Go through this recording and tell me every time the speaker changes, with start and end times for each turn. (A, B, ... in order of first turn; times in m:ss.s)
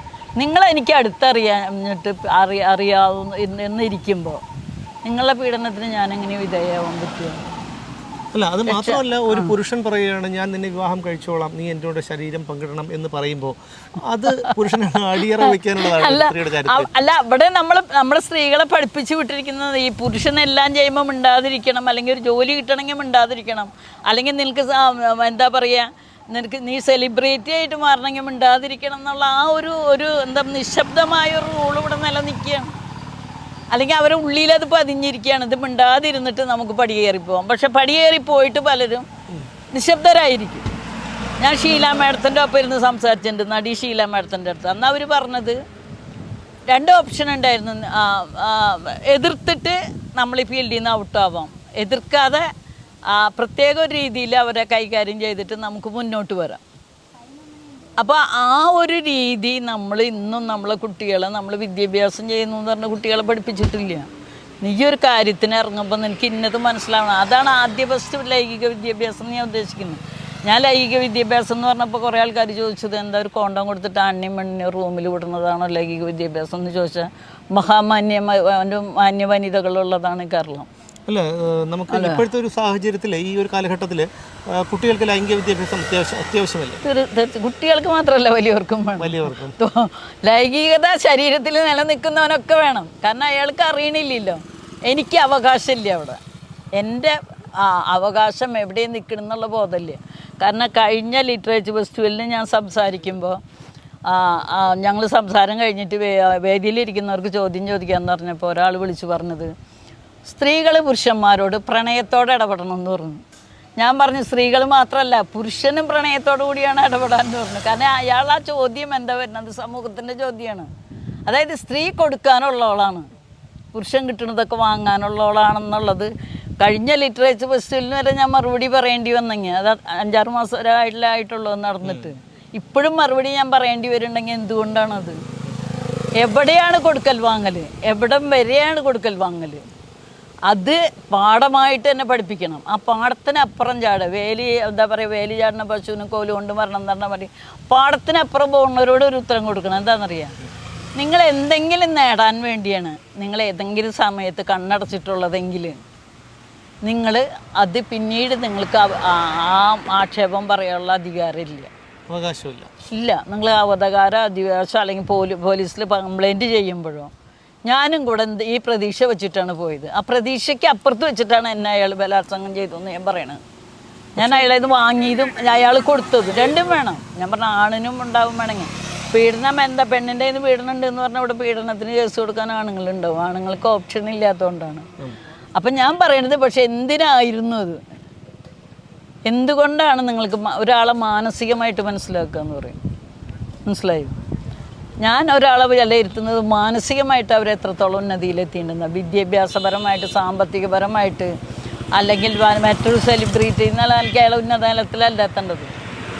0:00.4-0:04.4 A
0:05.0-0:07.4 A
0:08.3-0:16.9 B
0:08.7-0:09.5 A
0:14.3-0:14.6 A
0:15.4-0:32.7 A
0:33.7-0:39.0 A
0:39.7-0:40.7 A
0:41.4-0:45.6 A
0:46.7-0:52.5 A
0:53.1-0:56.6 A
0:58.0-1:04.1 A
1:04.6-1:20.7 A
1:21.1-1:26.8 B
1:21.9-1:22.2 A
1:26.8-1:36.2 A
1:29.0-1:29.6 B
1:36.8-1:43.4 A
1:44.0-1:49.5 A
1:50.2-1:53.2 A
1:53.8-2:00.7 A
2:01.2-2:03.1 A
2:03.7-2:15.2 A
2:11.8-2:12.1 B
2:16.2-2:19.6 A
2:20.5-2:30.4 A
2:31.0-2:35.8 A
2:36.8-2:41.7 A
2:42.1-2:42.7 B
2:42.9-2:47.1 A
2:47.6-2:53.4 A
2:54.2-2:54.5 B
2:54.2-3:04.9 A
3:05.6-3:07.8 A
3:09.2-3:12.8 A
3:13.6-3:14.1 A
3:15.0-3:21.3 A
3:22.0-3:25.7 A